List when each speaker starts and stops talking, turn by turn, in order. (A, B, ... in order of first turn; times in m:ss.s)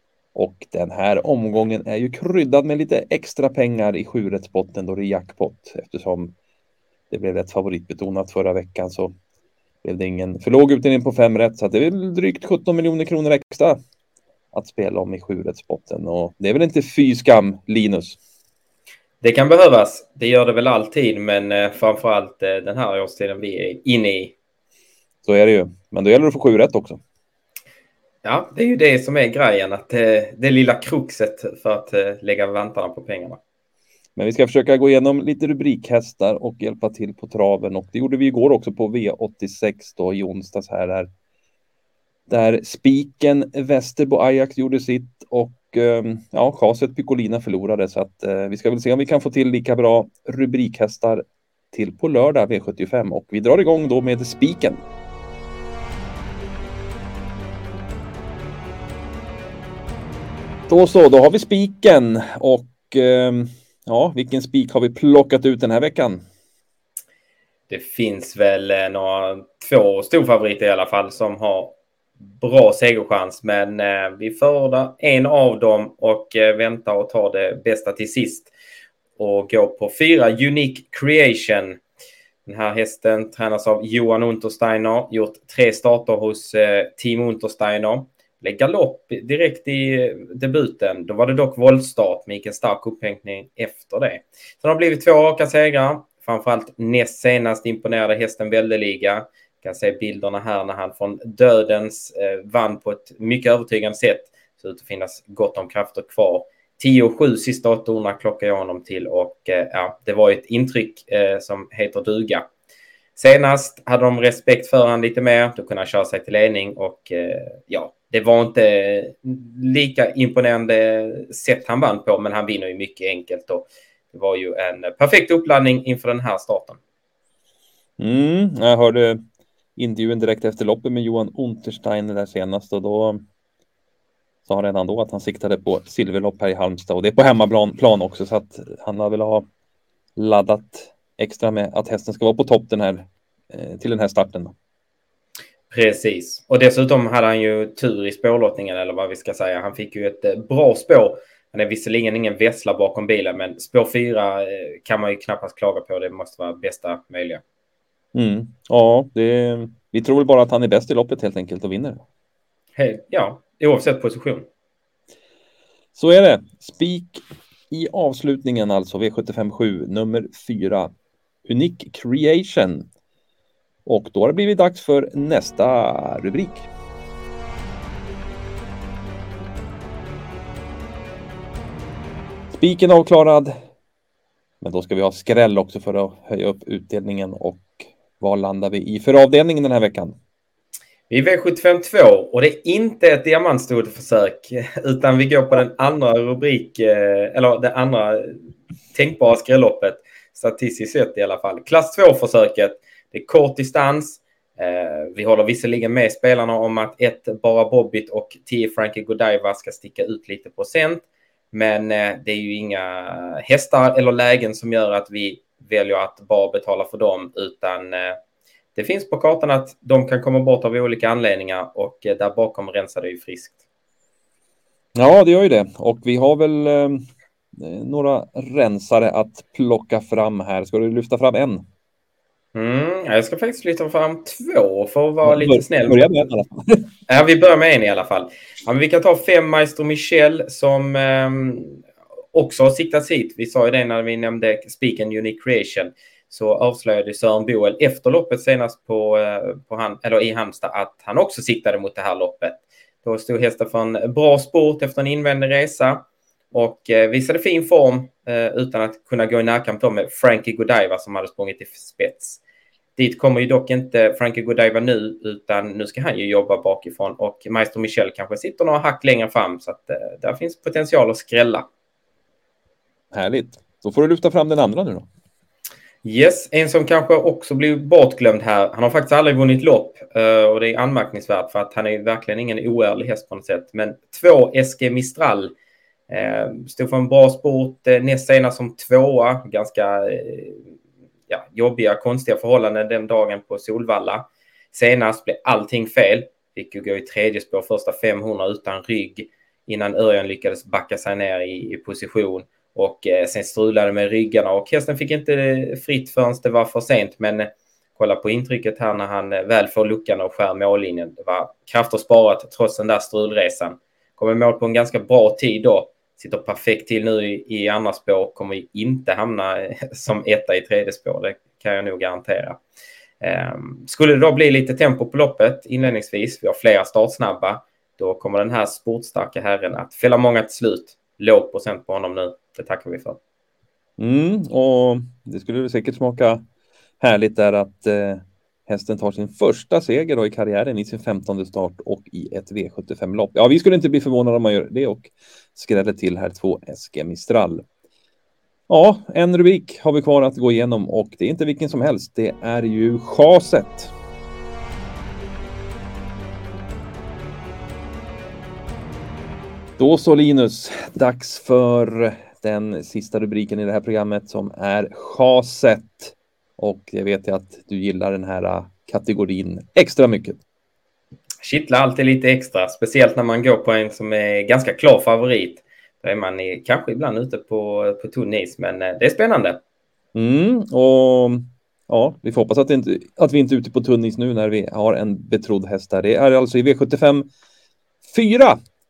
0:00.3-0:06.3 A
0:07.1-0:09.1 A
0:09.8-0:13.8 A
0:14.5-0:18.2 A
0:19.2-0:24.3 B
0:25.2-0:27.0 A
0:28.2-0:33.4 B
0:34.2-0:41.1 A
0:42.3-0:54.8 A
1:00.7-1:06.2 A
1:07.7-1:11.8 B
1:12.4-1:18.5 B
1:19.2-1:21.8 B
1:22.4-1:52.5 B
1:53.2-2:06.8 B
2:08.0-2:09.2 A
2:09.8-2:13.2 A
2:14.4-2:19.4 A
2:20.2-2:24.5 A
2:25.7-2:37.4 B
2:38.1-2:42.0 A
2:42.8-2:44.5 B
2:45.9-2:50.9 A
2:51.4-2:52.9 A
2:53.8-2:56.7 A
3:02.5-3:03.5 A
3:04.6-3:10.1 A
3:11.1-3:18.4 B
3:18.9-3:38.2 B
3:38.7-3:43.6 B
3:44.9-3:47.0 A
3:47.6-3:51.6 A
3:52.5-3:56.1 B
3:55.2-3:56.8 A
3:57.1-4:22.4 B
4:23.0-4:31.7 B
4:33.1-4:35.1 A
4:36.0-4:45.5 B
4:46.1-4:50.7 B
4:51.3-5:22.6 B
5:23.2-5:33.2 B
5:34.0-5:36.4 A
5:37.0-5:47.6 A
5:48.7-5:53.9 A
5:59.8-6:10.4 A
6:11.4-6:19.6 B
6:20.1-6:27.3 A
6:28.0-6:28.6 A